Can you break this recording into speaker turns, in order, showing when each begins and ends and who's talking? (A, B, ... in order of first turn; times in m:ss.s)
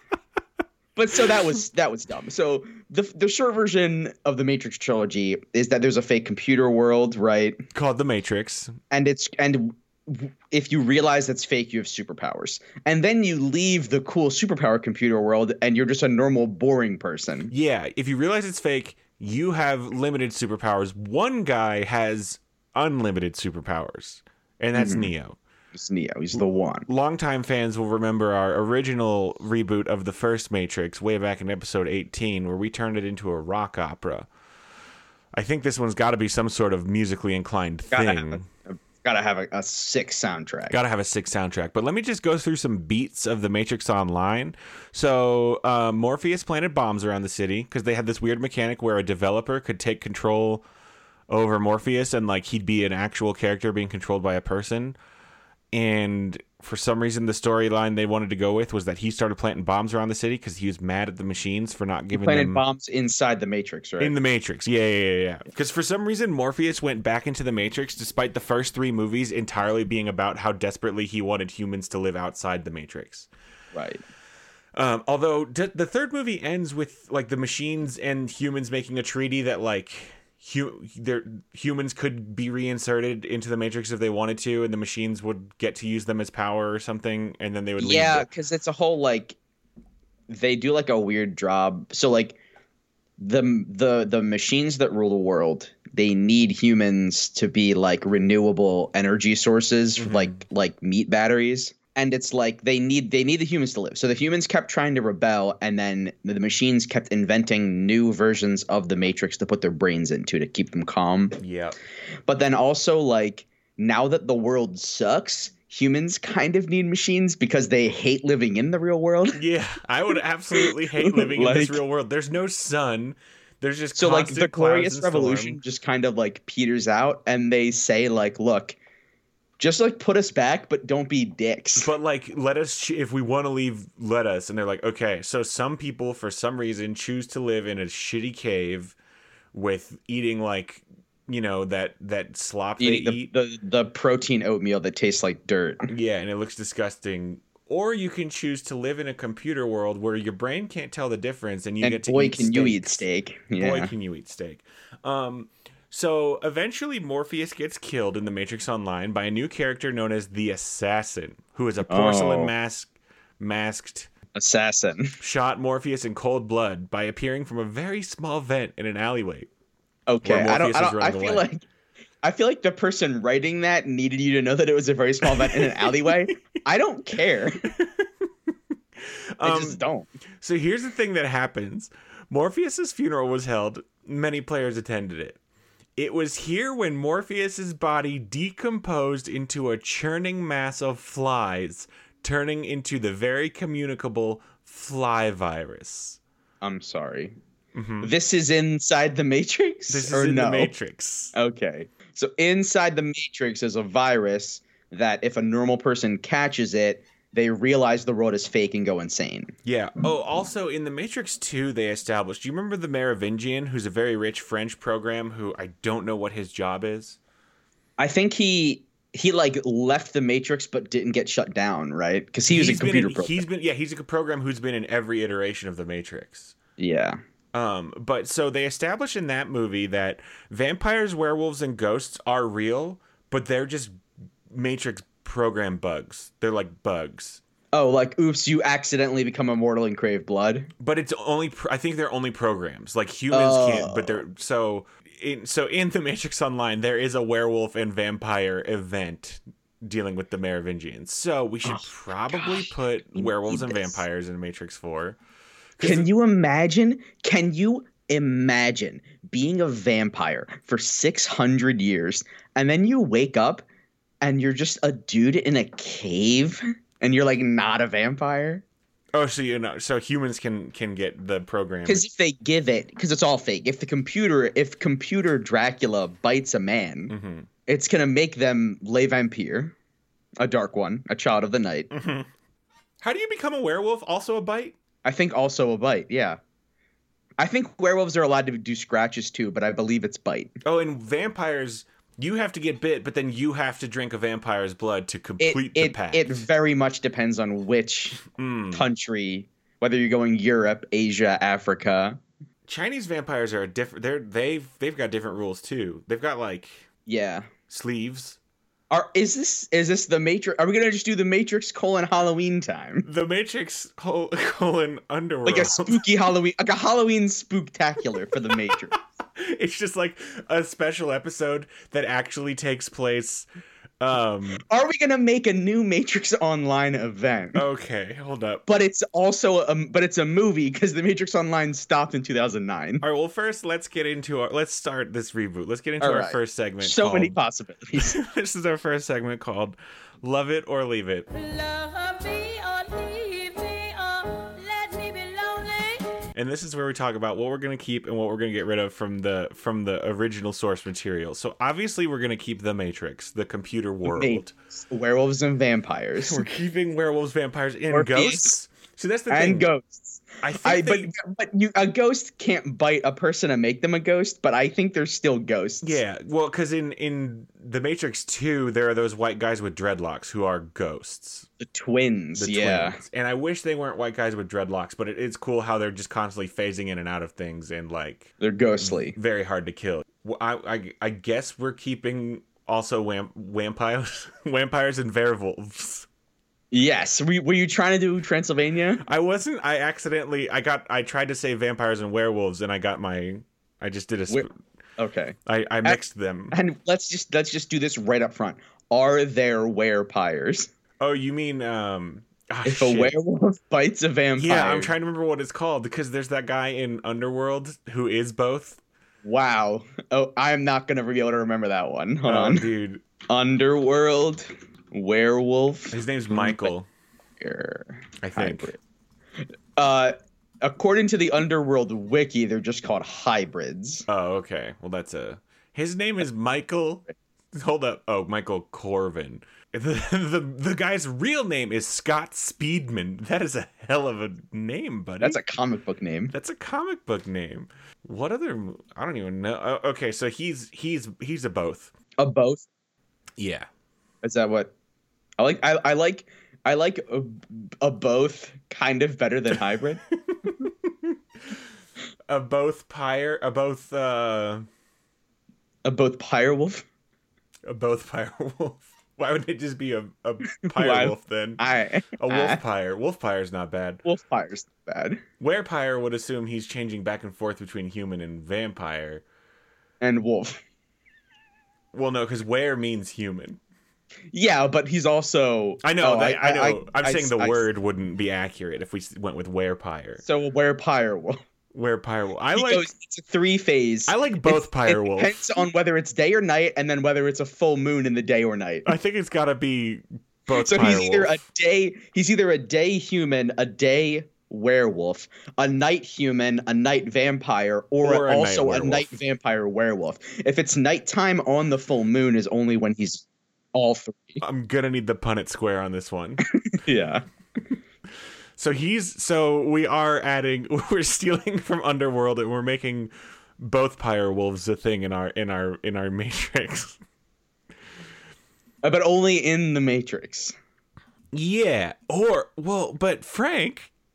0:01.0-0:07.6 A
0:07.7-0:08.7 B
0:08.9-0:17.5 A
0:17.5-0:25.4 B
0:24.7-0:25.1 A
0:25.7-0:26.9 A
0:26.9-0:34.3 B
0:35.3-0:38.5 B
0:37.9-0:40.8 A
0:40.7-0:50.6 B
0:51.3-0:55.0 B
0:55.7-1:02.6 B
1:02.1-1:04.1 A
1:04.0-1:13.3 B
1:13.7-1:14.0 A
1:14.7-1:28.3 B
1:27.8-1:29.4 A
1:30.3-1:32.4 A
1:33.2-1:51.4 A
1:40.0-1:40.4 B
1:51.4-1:51.8 B
1:52.3-1:59.4 A
1:59.3-2:05.6 B
2:00.6-2:01.8 A
2:03.9-2:08.8 A
2:09.6-2:11.9 A
2:11.8-2:18.9 B
2:19.5-2:23.3 B
2:22.8-2:25.9 A
2:25.9-2:33.0 B
2:31.8-2:33.9 A
2:33.6-2:44.1 B
2:41.9-2:42.5 A
2:44.3-2:45.2 A
2:45.2-2:49.5 B
2:50.1-2:51.6 A
2:50.2-2:51.4 B
2:52.2-2:57.6 A
2:55.2-2:56.3 B
2:57.6-2:58.1 B
2:59.0-2:59.8 B
2:59.4-3:00.1 A
3:00.4-3:05.4 B
3:06.0-3:16.2 B
3:16.6-3:17.4 A
3:17.7-3:18.1 B
3:18.0-3:20.7 A
3:19.9-3:21.3 B
3:21.3-3:29.5 A
3:29.6-3:37.2 B
3:38.0-3:43.4 A
3:42.5-3:46.5 B
3:46.8-3:47.2 A
3:47.5-3:57.4 B
3:57.7-4:00.7 A
4:00.8-4:15.2 B
4:03.3-4:04.2 A
4:11.7-4:14.0 A
4:15.8-4:16.1 B
4:15.8-4:23.6 A
4:24.2-4:28.6 A
4:29.1-4:32.0 B
4:31.8-4:37.1 A
4:37.1-4:37.5 B
4:37.7-4:39.7 A
4:40.4-4:41.9 A
4:41.9-4:42.3 B
4:43.0-4:44.8 B
4:45.0-4:46.4 A
4:47.4-4:50.5 A
4:50.6-4:56.5 B
4:55.4-4:58.2 A
4:58.3-4:58.8 B
4:58.7-5:02.2 A
5:02.7-5:06.8 B
5:07.1-5:07.5 A
5:07.7-5:08.4 B
5:08.9-5:13.0 A
5:13.0-5:16.0 B
5:15.4-5:19.0 A
5:18.5-5:18.8 B
5:19.4-5:23.5 B
5:24.0-5:24.6 B
5:24.7-5:27.6 A
5:27.5-5:28.6 B
5:28.7-5:33.0 A
5:33.0-5:37.4 B
5:36.0-5:38.2 A
5:38.0-5:41.3 B
5:41.3-5:46.1 C
5:46.3-5:54.5 B
5:54.0-5:56.4 A
5:56.2-5:59.7 B
5:57.9-5:58.5 A
5:59.3-6:06.0 A
6:00.4-6:01.1 B
6:05.8-6:11.5 B
6:11.6-6:13.0 A
6:12.4-6:26.1 B
6:18.4-6:19.2 A
6:26.7-6:29.0 A
6:29.0-6:34.5 B
6:34.3-6:36.0 A
6:35.4-6:36.5 B
6:36.5-6:40.7 A
6:41.0-6:43.1 B
6:42.6-6:44.9 A
6:44.4-6:48.8 B
6:49.2-6:52.7 A
6:52.2-6:53.0 B
6:53.3-6:56.7 A
6:55.9-6:56.9 B
6:57.4-6:58.8 A
6:58.2-6:58.7 B
6:59.8-7:04.0 A
7:04.1-7:15.4 B
7:15.2-7:16.3 A
7:16.3-7:21.9 B
7:22.2-7:22.6 A
7:23.4-7:23.7 B
7:24.2-7:24.7 A
7:25.4-7:30.0 A
7:30.3-7:31.6 B
7:32.3-7:34.6 B
7:35.8-7:36.8 A
7:37.6-7:41.6 B
7:40.6-7:42.6 A
7:42.2-7:44.0 B
7:44.0-7:45.2 A
7:45.4-7:49.2 B
7:50.0-7:50.6 A
7:51.9-7:53.6 B
7:54.3-7:57.6 A
7:55.8-8:00.2 B
8:00.2-8:01.4 A
8:01.7-8:02.9 B
8:02.5-8:08.9 A
8:04.1-8:05.5 B
8:08.8-8:11.4 B
8:10.5-8:24.4 A
8:18.0-8:19.1 B
8:24.4-8:26.4 B
8:26.7-8:27.2 A
8:28.6-8:37.0 B
8:38.8-8:40.5 A
8:41.3-8:43.9 B